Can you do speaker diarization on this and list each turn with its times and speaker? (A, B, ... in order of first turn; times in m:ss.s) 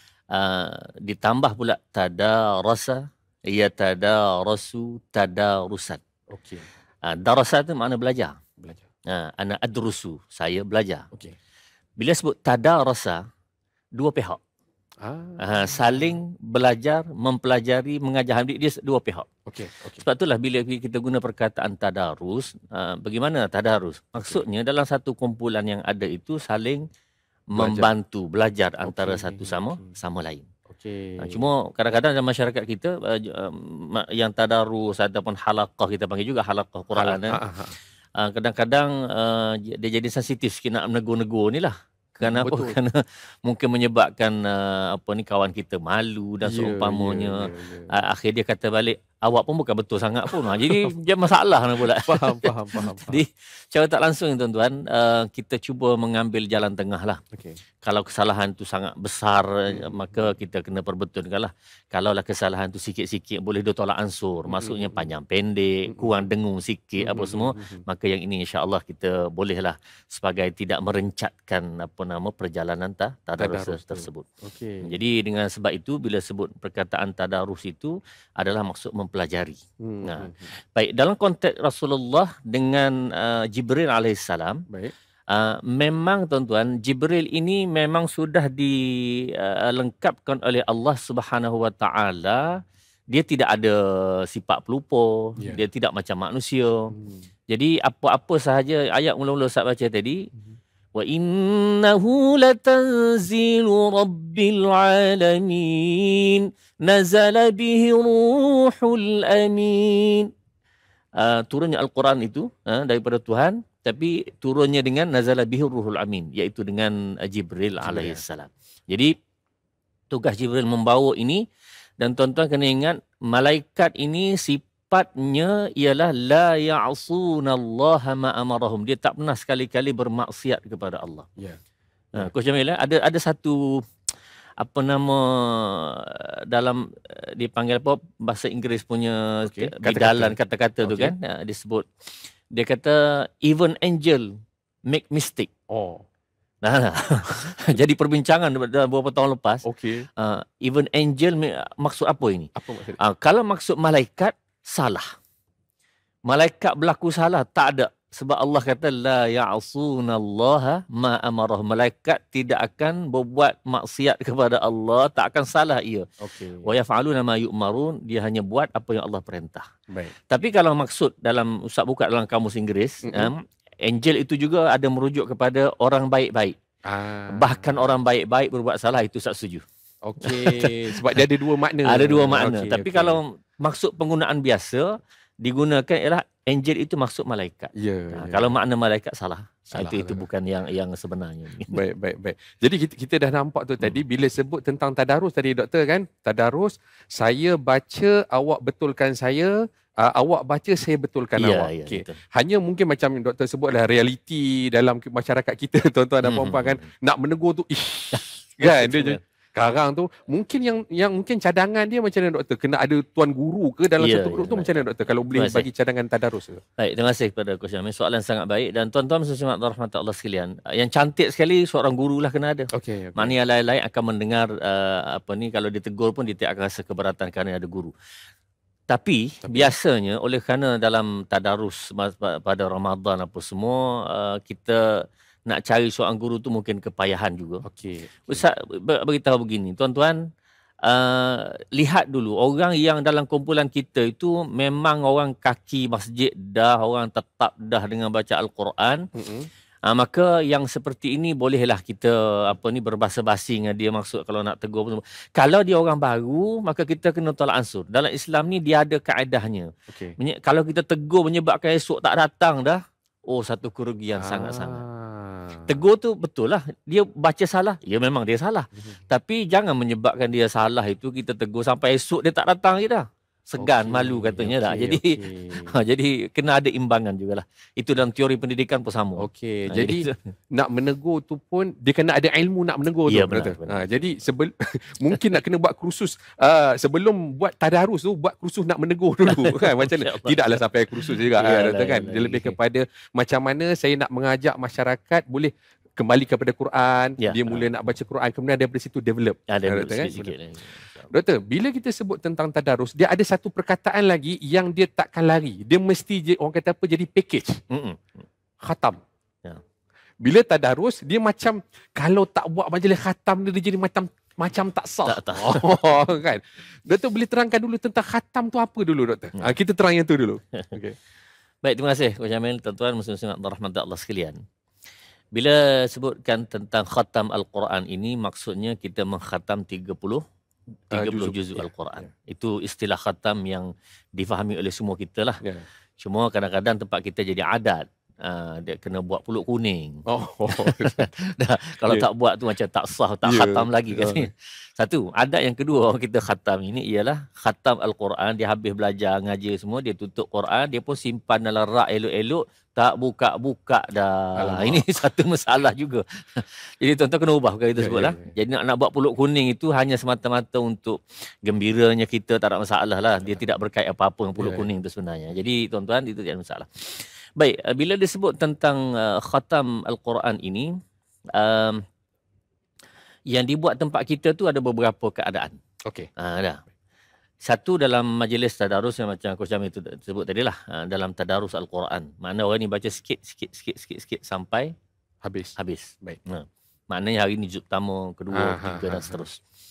0:00.3-0:06.0 A
0:06.3-0:06.7 B
0:07.0-0:08.4 A
0:08.6-0:08.8 B
0:09.1-0:11.1 A
0:12.0-0:13.2 A
0:14.0-0:14.4 A
0:15.0-0:16.2 B
0:15.4-0:19.3 A
0:19.5-0:20.0 B
0:20.0-0:26.8 A
0:27.5-0:30.5 A
0:27.6-0:27.9 B
0:28.8-0:30.0 B
0:30.7-0:31.5 B
0:31.2-0:37.4 A
0:37.0-0:37.8 B
0:38.2-0:57.2 A
0:42.2-0:42.8 B
0:46.4-0:48.0 B
0:50.3-0:50.9 B
0:51.9-0:53.2 B
0:57.3-0:57.6 B
0:57.8-1:14.2 A
0:59.7-1:00.3 B
1:04.5-1:05.1 B
1:05.9-1:06.2 B
1:07.0-1:07.8 B
1:13.4-1:15.0 B
1:14.8-1:24.6 A
1:19.8-1:20.5 B
1:25.3-1:32.4 A
1:33.1-1:36.9 A
1:36.9-1:37.2 B
1:37.5-1:40.2 A
1:41.0-1:50.3 A
1:51.2-1:59.1 A
1:57.8-1:58.2 B
2:00.1-2:01.4 A
2:02.0-2:11.3 A
2:12.2-2:13.8 A
2:14.6-2:21.9 A
2:19.5-2:21.1 B
2:22.5-2:25.5 A
2:25.7-2:26.0 B
2:26.6-2:29.6 A
2:29.6-2:30.1 B
2:30.2-2:35.1 A
2:32.6-2:33.0 B
2:36.3-2:46.1 A
2:46.2-2:46.7 B
2:46.6-2:49.7 A
2:49.9-2:50.1 B
2:50.3-2:56.6 A
2:53.0-2:53.3 B
2:56.9-2:58.0 B
2:57.3-2:59.6 A
3:00.0-3:03.2 B
3:00.2-3:01.2 A
3:01.8-3:11.8 A
3:07.8-3:08.6 B
3:09.7-3:10.3 B
3:11.7-3:36.6 B
3:21.4-3:22.2 A
3:26.2-3:26.9 A
3:28.2-3:29.2 A
3:34.0-3:34.7 A
3:35.3-3:35.6 A
3:36.8-3:47.9 A
3:42.7-3:43.4 B
3:48.9-3:57.6 A
3:49.4-3:49.7 B
3:57.6-3:58.5 B
3:58.3-4:00.2 A
4:00.9-4:09.1 A
4:09.1-4:09.5 B
4:09.9-4:24.8 A
4:19.9-4:20.2 B
4:24.2-4:25.8 B
4:25.7-4:40.1 A
4:33.6-4:35.8 B
4:39.2-5:00.4 B
4:43.1-4:43.9 A
4:49.3-4:52.6 A
4:57.2-4:57.7 A
4:59.5-5:01.1 A
5:01.1-5:07.6 B
5:07.7-5:08.2 A
5:08.6-5:09.0 B
5:10.2-5:21.0 B
5:15.1-5:16.1 A
5:21.6-5:24.4 A
5:25.4-5:30.2 A
5:30.9-5:35.4 A
5:30.9-5:32.1 B
5:36.0-6:10.7 A
5:40.1-5:41.1 B
5:43.2-5:44.3 B
5:54.4-5:54.9 B
5:57.8-5:58.3 B
6:04.4-6:04.6 B
6:11.4-6:11.8 A
6:13.3-6:15.6 A
6:16.2-6:16.6 A
6:17.4-6:24.7 A
6:25.2-6:26.2 B
6:25.6-6:29.4 A
6:28.3-6:29.2 B